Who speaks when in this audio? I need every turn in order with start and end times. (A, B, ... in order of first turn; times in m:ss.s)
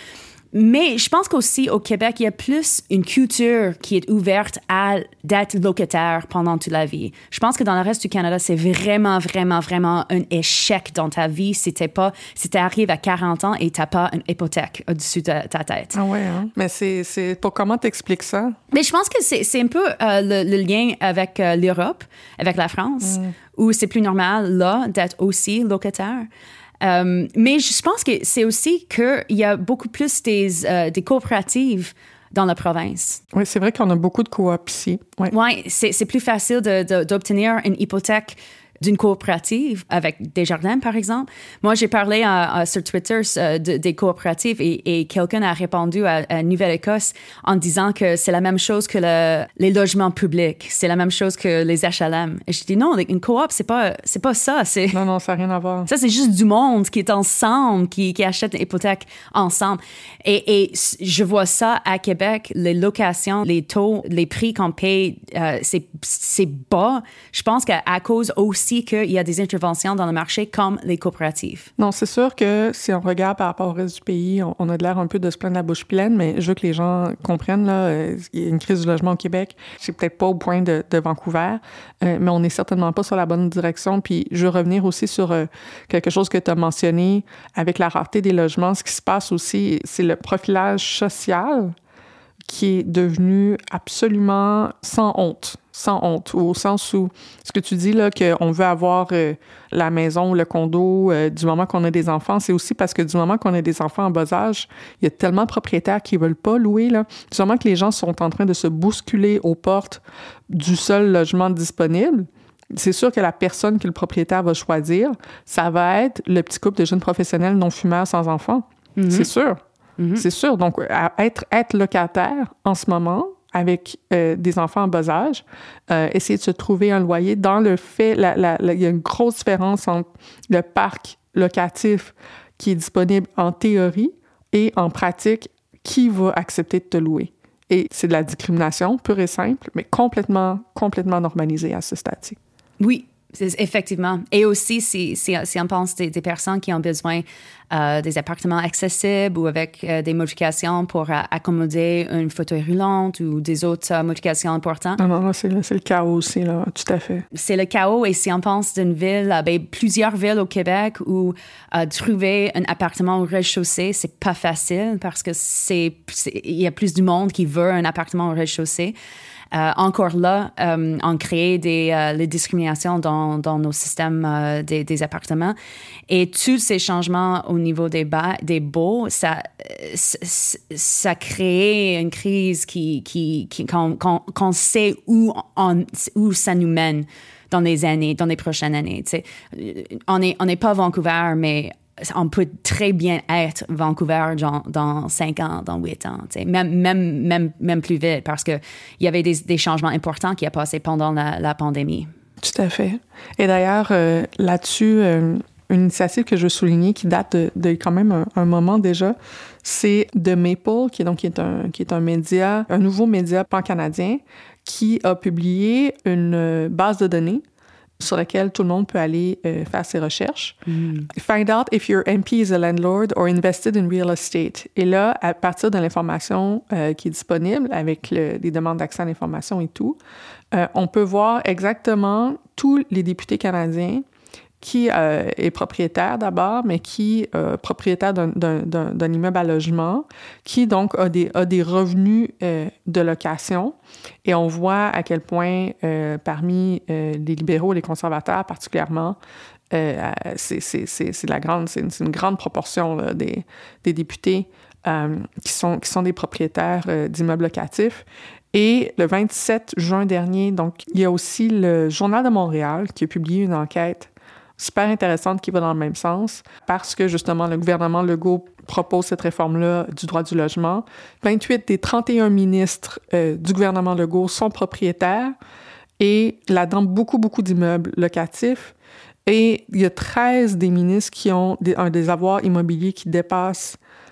0:00.5-0:16.0 A
0:15.9-0:18.6 B
0:18.7-0:26.3 A
0:23.0-0:23.3 B
0:26.8-0:33.2 A
0:33.3-0:35.3 B
0:35.3-0:55.0 A
0:54.9-0:55.9 B
0:55.9-1:11.7 A
1:11.8-1:31.8 B
1:32.5-1:59.6 B
1:59.0-1:59.3 A
2:00.0-2:00.2 A
2:00.2-2:22.4 B
2:22.8-2:35.0 A
2:35.0-2:37.2 B
2:37.3-2:48.9 A
2:49.5-2:55.6 A
2:56.1-3:22.1 A
3:22.4-3:37.4 B
3:38.0-3:40.6 B
3:40.7-3:41.1 A
3:41.1-3:50.0 B
3:50.5-3:54.0 B
3:54.6-4:09.2 B
4:09.7-4:35.4 B
4:36.0-4:38.7 B
4:39.2-4:43.8 B